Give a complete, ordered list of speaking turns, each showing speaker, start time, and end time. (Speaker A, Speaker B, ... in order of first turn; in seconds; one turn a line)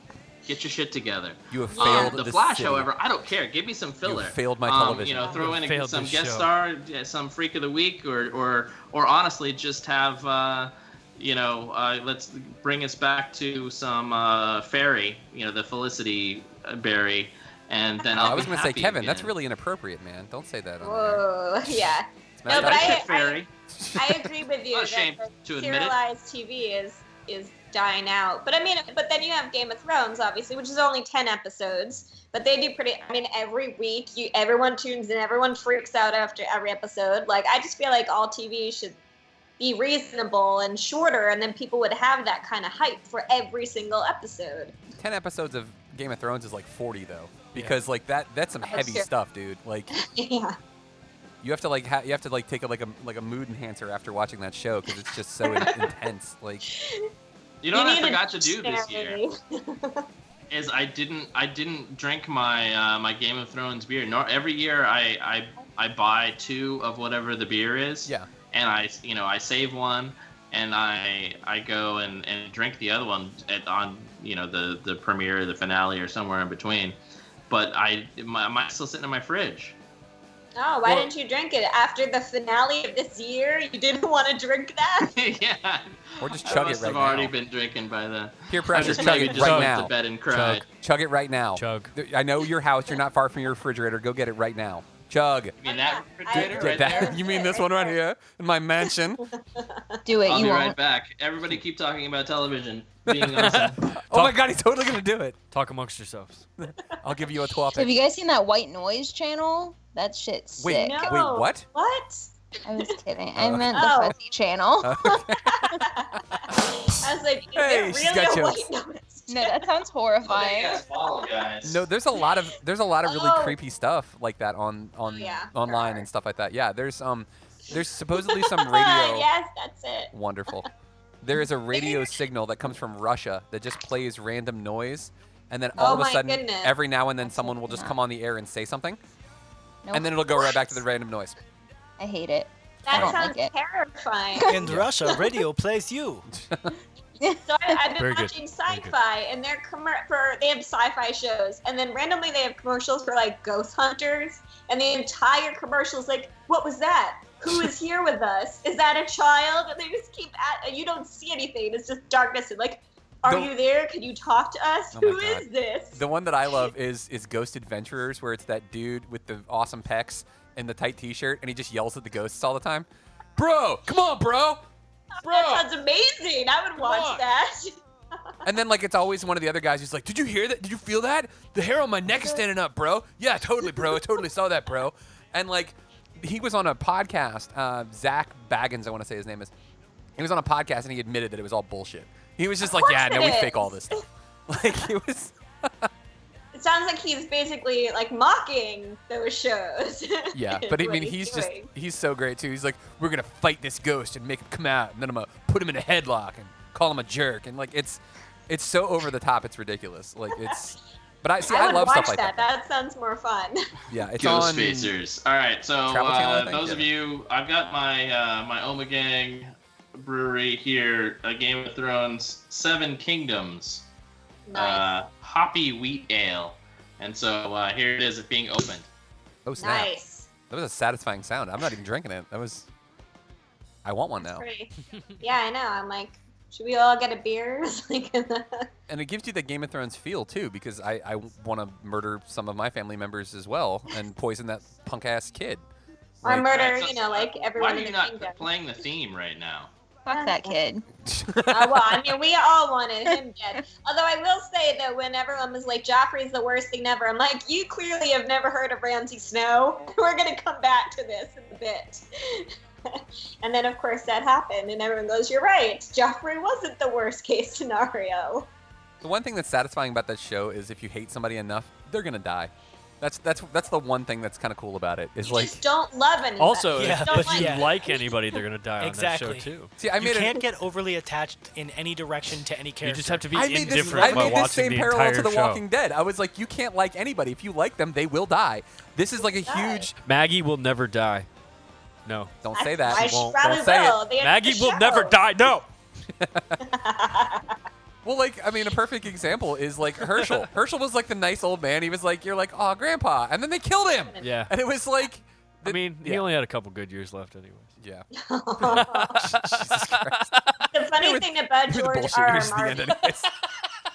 Speaker A: 0.5-19.3
Speaker B: 1.5-2.9
Speaker C: 1.7-2.2
Speaker B: 4.0-5.3
Speaker D: 5.3-6.5
Speaker B: 18.2-21.2
Speaker C: 20.8-39.0
Speaker B: 22.4-23.1
Speaker A: 22.5-23.5
Speaker B: 23.8-24.3
Speaker A: 24.7-26.0
Speaker C: 39.6-44.8
Speaker B: 45.0-49.9
Speaker C: 48.7-49.1
Speaker C: 49.9-50.6
Speaker B: 51.4-56.7
Speaker C: 55.4-55.9
Speaker C: 56.7-57.1
Speaker A: 57.6-59.2
Speaker C: 57.7-60.1
Speaker A: 60.5-77.0
Speaker A: 77.5-79.8
Speaker C: 80.6-85.1
Speaker A: 85.0-90.6
Speaker B: 86.2-87.3
Speaker B: 88.5-89.9
Speaker D: 89.2-90.6
Speaker B: 90.7-95.5
Speaker D: 91.5-91.9
Speaker A: 95.6-97.2
Speaker C: 95.6-98.0
Speaker B: 96.3-99.2
Speaker C: 99.3-100.0
Speaker E: 100.0-100.8
Speaker A: 100.3-103.8
Speaker B: 103.1-105.4
Speaker D: 103.4-104.4
Speaker D: 105.5-106.5
Speaker B: 106.7-108.0
Speaker E: 107.7-111.1
Speaker B: 110.6-111.7
Speaker C: 110.7-112.9
Speaker E: 112.7-115.0
Speaker B: 113.4-114.0
Speaker C: 113.7-114.2
Speaker B: 114.8-116.4
Speaker C: 115.1-119.7
Speaker B: 117.5-118.7
Speaker E: 119.3-120.8
Speaker A: 120.2-121.8
Speaker B: 121.6-129.3
Speaker C: 123.0-123.6
Speaker C: 125.1-126.1
Speaker C: 127.7-130.7
Speaker B: 130.1-130.7
Speaker B: 131.2-139.0
Speaker C: 131.7-132.2
Speaker E: 135.8-136.1
Speaker C: 135.8-136.8
Speaker E: 137.2-138.0
Speaker E: 139.8-140.8
Speaker B: 139.9-141.4
Speaker E: 142.0-143.5
Speaker C: 142.8-144.6
Speaker B: 142.9-143.2
Speaker E: 144.4-144.6
Speaker F: 144.5-146.3
Speaker B: 146.4-146.7
Speaker C: 147.4-166.0
Speaker D: 147.9-148.9
Speaker B: 163.3-163.5
Speaker B: 164.9-172.9
Speaker B: 173.4-174.6
Speaker C: 175.2-177.8
Speaker B: 175.2-175.7
Speaker B: 176.8-177.2
Speaker B: 178.4-189.5
Speaker C: 182.2-182.4
Speaker B: 190.2-195.9
Speaker C: 192.6-194.0
Speaker C: 196.5-201.7
Speaker B: 200.3-212.5
Speaker C: 210.3-210.6
Speaker C: 211.4-213.7
Speaker B: 213.9-214.9
Speaker A: 214.2-223.8
Speaker B: 215.9-216.9
Speaker C: 224.5-225.0
Speaker A: 224.5-228.9
Speaker B: 229.5-229.9
Speaker C: 229.6-230.3
Speaker B: 230.5-232.7
Speaker B: 233.8-234.4
Speaker C: 234.2-238.7
Speaker B: 238.9-245.6
Speaker B: 246.2-246.5
Speaker C: 246.2-248.5
Speaker A: 246.3-249.7
Speaker E: 250.1-250.8
Speaker C: 250.1-250.6
Speaker B: 251.1-252.0
Speaker C: 251.5-268.5
Speaker B: 269.0-275.6
Speaker C: 275.2-278.1
Speaker D: 276.4-279.7
Speaker F: 276.8-277.7
Speaker F: 278.8-284.5
Speaker B: 279.8-280.4
Speaker D: 282.8-285.6
Speaker B: 283.3-289.9
Speaker C: 289.2-289.9
Speaker D: 290.0-291.3
Speaker D: 292.1-292.4
Speaker B: 292.4-294.0
Speaker C: 292.5-295.2
Speaker D: 292.9-295.7
Speaker B: 296.2-296.6
Speaker C: 296.6-297.6
Speaker B: 298.0-306.3
Speaker D: 300.1-300.5
Speaker C: 304.0-304.3
Speaker D: 304.2-304.5
Speaker D: 305.6-307.7
Speaker B: 307.8-308.1
Speaker C: 308.1-309.2
Speaker B: 308.6-310.3
Speaker D: 308.8-310.4
Speaker C: 310.7-313.1
Speaker B: 311.0-313.3